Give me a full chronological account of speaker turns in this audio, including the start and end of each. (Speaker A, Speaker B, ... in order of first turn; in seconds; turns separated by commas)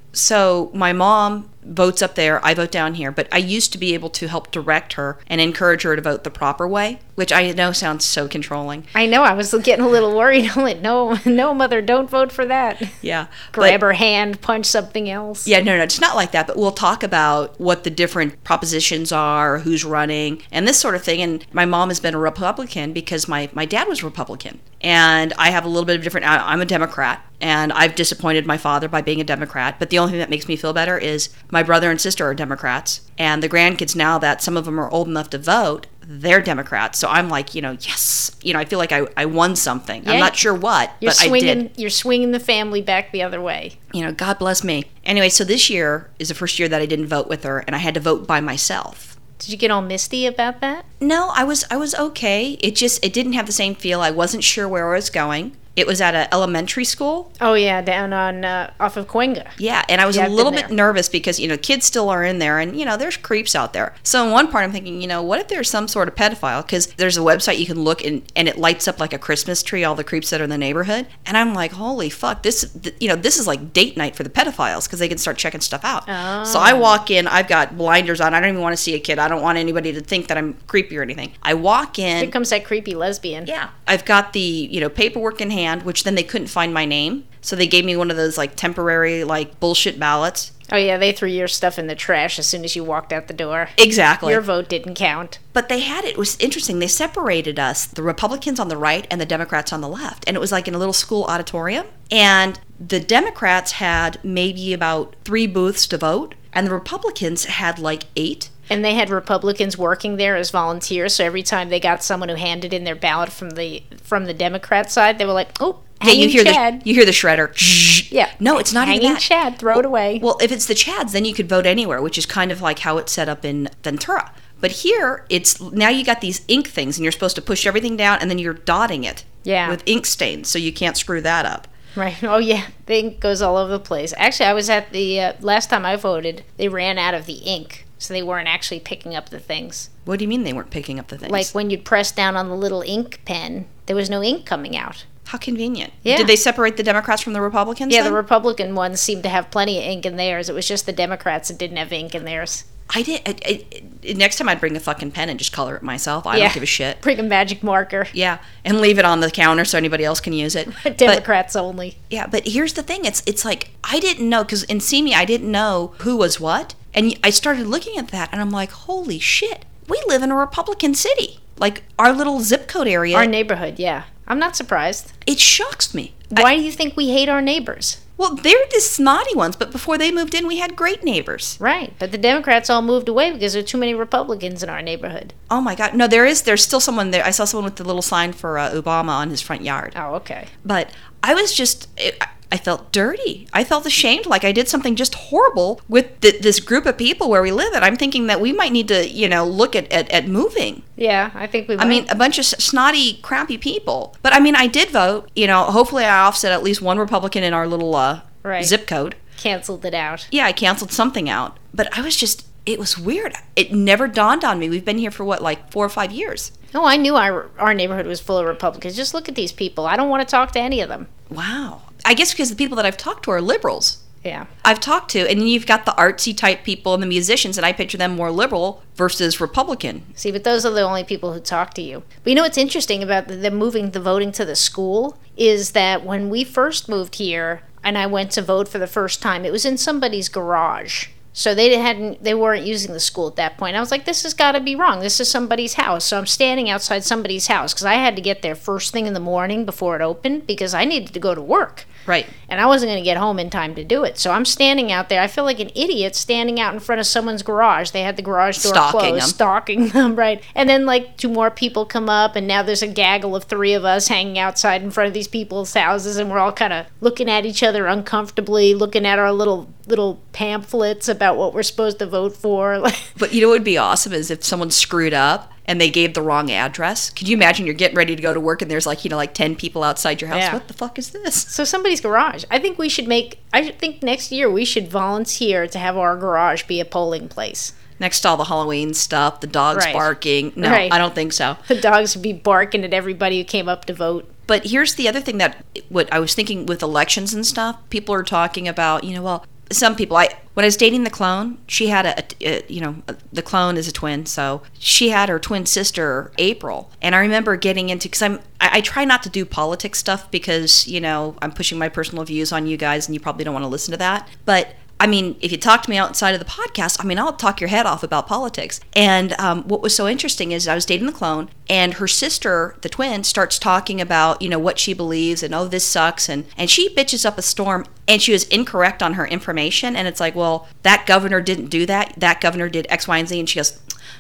Speaker A: 0.1-8.9, Speaker B: 8.9-12.9, Speaker A: 13.0-13.8, Speaker B: 13.5-15.5, Speaker A: 15.4-41.6, Speaker B: 40.0-40.5, Speaker B: 41.0-43.8, Speaker A: 43.9-49.2, Speaker B: 49.4-50.8, Speaker A: 51.0-57.3, Speaker B: 57.4-59.5, Speaker A: 59.6-82.3, Speaker B: 60.1-60.7, Speaker B: 76.1-77.0, Speaker B: 82.2-83.5, Speaker A: 83.5-90.5, Speaker B: 90.7-95.4, Speaker A: 93.8-94.4, Speaker A: 95.5-108.5, Speaker B: 108.7-116.8, Speaker A: 116.0-131.7, Speaker B: 118.1-120.2, Speaker B: 129.4-129.8, Speaker B: 132.0-139.9, Speaker A: 140.1-141.5, Speaker B: 141.2-145.1, Speaker A: 145.3-148.2, Speaker B: 146.0-146.3, Speaker B: 147.9-152.6, Speaker A: 152.9-157.0, Speaker B: 156.3-158.1, Speaker A: 158.1-161.2, Speaker B: 160.7-161.9, Speaker A: 162.1-173.3, Speaker B: 173.1-175.1, Speaker A: 175.3-176.5, Speaker B: 176.3-178.0, Speaker A: 178.2-181.6, Speaker B: 181.6-185.3, Speaker A: 185.5-189.9, Speaker B: 189.9-190.5, Speaker A: 190.6-200.8, Speaker B: 201.0-202.1, Speaker A: 201.8-209.2, Speaker B: 208.4-208.7, Speaker B: 209.4-210.3, Speaker A: 210.3-216.5, Speaker B: 216.7-221.1, Speaker A: 221.3-224.0, Speaker B: 224.2-224.5, Speaker A: 224.6-230.1, Speaker B: 230.2-251.9, Speaker A: 252.1-252.3, Speaker B: 252.5-273.2, Speaker A: 258.6-259.4, Speaker A: 273.2-281.5, Speaker B: 280.3-280.6, Speaker B: 281.5-287.8, Speaker A: 288.0-291.6, Speaker B: 289.7-290.1, Speaker B: 290.6-291.0, Speaker B: 291.7-294.3, Speaker A: 294.5-333.8